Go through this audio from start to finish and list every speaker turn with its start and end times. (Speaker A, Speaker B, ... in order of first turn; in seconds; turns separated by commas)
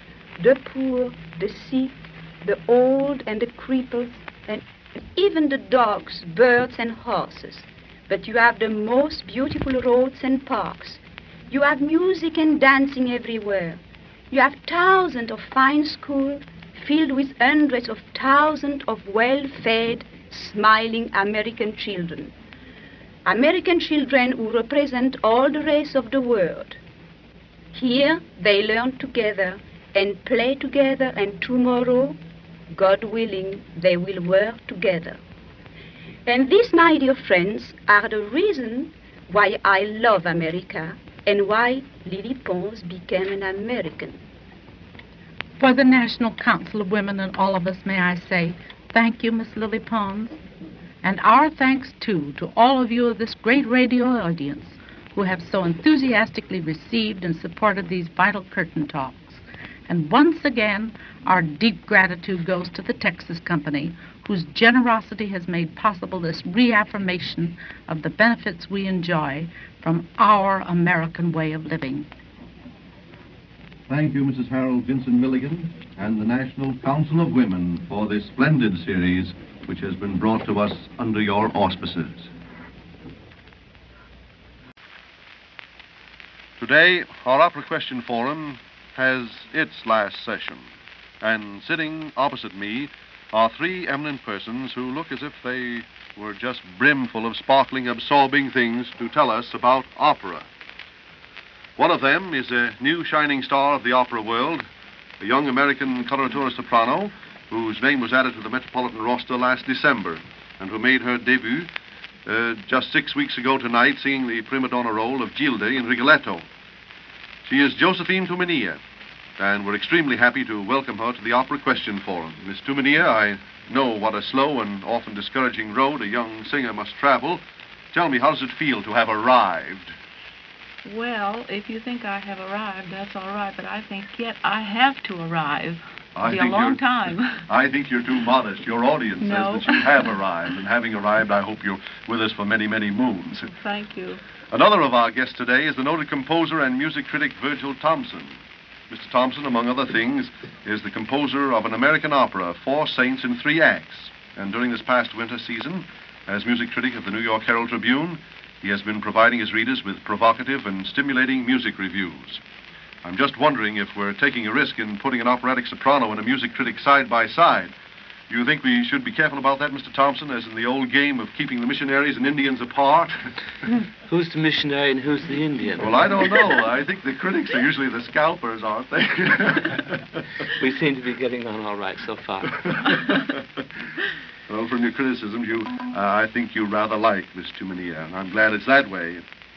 Speaker A: 0.4-13.8, Speaker A: 14.3-22.3, Speaker A: 23.2-26.8, Speaker A: 27.7-32.2, Speaker A: 32.7-35.2, Speaker A: 36.2-44.2, Speaker B: 45.6-50.4, Speaker B: 51.0-72.1, Speaker C: 73.9-82.3, Speaker C: 86.6-90.7, Speaker C: 91.2-100.5, Speaker C: 101.8-104.6, Speaker C: 105.2-111.7, Speaker C: 112.2-116.5, Speaker C: 117.4-118.8, Speaker C: 119.4-129.9, Speaker D: 130.8-137.4, Speaker C: 136.2-136.8, Speaker C: 137.4-143.5, Speaker D: 139.2-140.0, Speaker D: 143.5-144.2, Speaker C: 144.5-148.4, Speaker C: 148.9-162.4, Speaker C: 163.0-167.7, Speaker C: 168.3-173.3, Speaker E: 174.1-176.3, Speaker C: 175.8-180.2, Speaker E: 180.5-182.7, Speaker C: 182.7-183.4, Speaker C: 184.5-189.2